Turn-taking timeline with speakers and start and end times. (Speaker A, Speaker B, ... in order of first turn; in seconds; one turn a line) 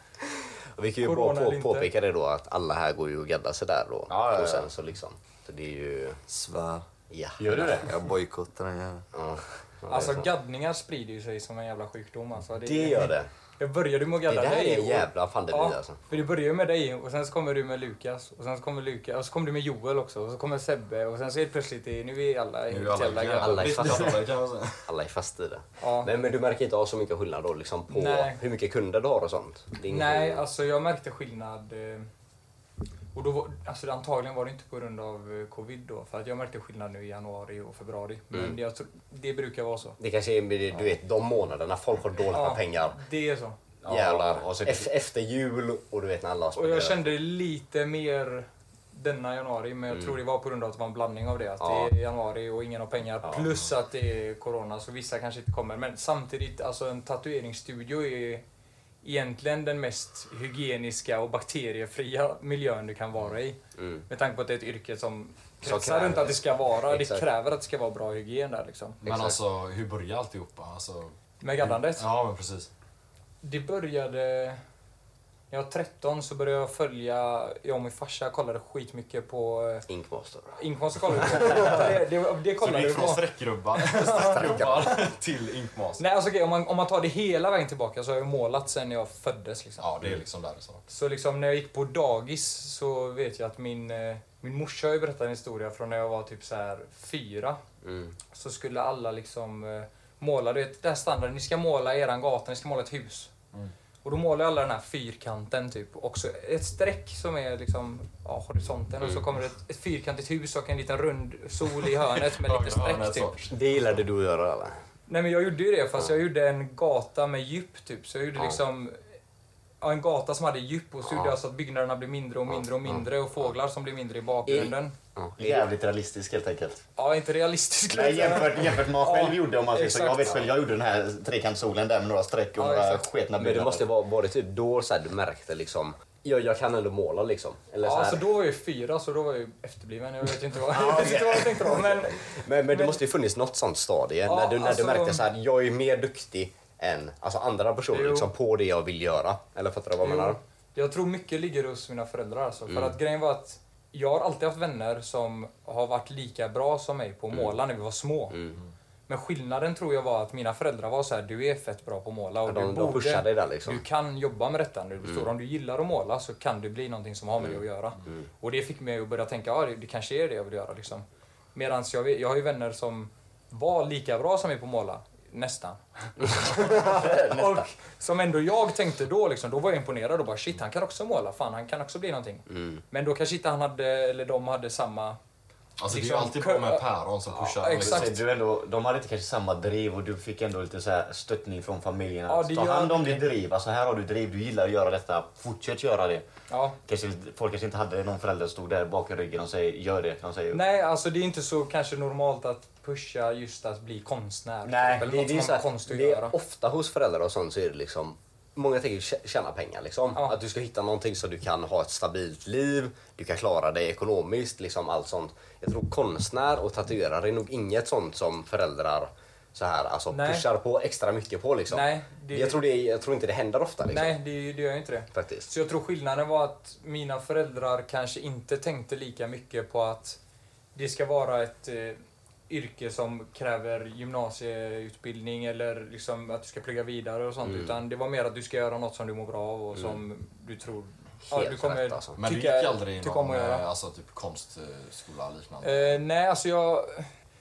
Speaker A: 0.3-6.2
Speaker B: 1.0-1.9
Speaker C: 4.1-4.7
Speaker D: 6.3-6.8
Speaker A: 7.1-7.7
Speaker C: 7.4-7.9
Speaker D: 7.5-9.1
Speaker A: 9.1-10.3
Speaker B: 9.9-24.1
Speaker A: 12.6-13.3
Speaker A: 14.3-16.0
Speaker E: 22.7-24.9
Speaker A: 23.4-24.3
Speaker A: 24.9-30.4
Speaker B: 25.8-26.1
Speaker B: 27.9-28.4
Speaker B: 29.9-32.1
Speaker B: 33.1-40.0
Speaker A: 38.3-38.6
Speaker A: 40.0-43.0
Speaker B: 42.3-43.6
Speaker C: 43.8-44.9
Speaker A: 43.9-47.1
Speaker B: 46.5-58.4
Speaker A: 49.9-50.2
Speaker A: 51.6-51.9
Speaker B: 59.0-69.0
Speaker A: 63.8-64.0
Speaker A: 65.6-67.3
Speaker E: 69.0-72.7
Speaker A: 69.0-69.4
Speaker B: 71.4-72.1
Speaker B: 73.4-74.6
Speaker B: 75.5-79.9
Speaker A: 79.9-80.6
Speaker B: 80.6-84.7
Speaker A: 81.3-81.8
Speaker E: 81.5-81.8
Speaker E: 82.6-86.0
Speaker A: 84.0-85.1
Speaker B: 86.0-89.9
Speaker E: 89.8-90.8
Speaker B: 90.9-97.6
Speaker A: 97.8-98.2
Speaker B: 98.3-103.3
Speaker B: 104.0-113.3
Speaker E: 111.9-113.8
Speaker A: 113.5-114.8
Speaker B: 115.1-119.0
Speaker B: 119.8-125.0
Speaker A: 121.1-121.3
Speaker A: 122.5-123.0
Speaker A: 124.5-125.7
Speaker C: 125.4-126.8
Speaker B: 127.0-130.5
Speaker C: 127.9-133.9
Speaker B: 132.6-133.1
Speaker A: 133.4-138.3
Speaker B: 137.8-143.0
Speaker A: 140.7-150.4
Speaker B: 144.2-145.3
Speaker B: 147.9-148.3
Speaker B: 150.0-158.4
Speaker A: 152.7-153.0
Speaker A: 158.3-158.6
Speaker B: 159.1-185.2
Speaker A: 162.5-163.8
Speaker A: 167.4-168.3
Speaker A: 176.4-177.2
Speaker A: 182.5-182.8
Speaker E: 185.8-188.2
Speaker B: 185.9-186.9
Speaker B: 187.4-188.2
Speaker C: 187.8-196.2
Speaker B: 192.3-193.3
Speaker B: 196.5-196.8
Speaker C: 196.8-200.6
Speaker B: 200.5-206.3
Speaker C: 204.7-205.1
Speaker A: 205.0-224.2
Speaker B: 220.1-220.5
Speaker B: 221.7-222.6
Speaker B: 223.9-230.2
Speaker A: 225.1-225.5
Speaker B: 230.8-243.7
Speaker A: 237.4-237.8
Speaker A: 239.8-240.0
Speaker A: 241.3-242.2
Speaker E: 242.2-246.0
Speaker B: 245.6-247.1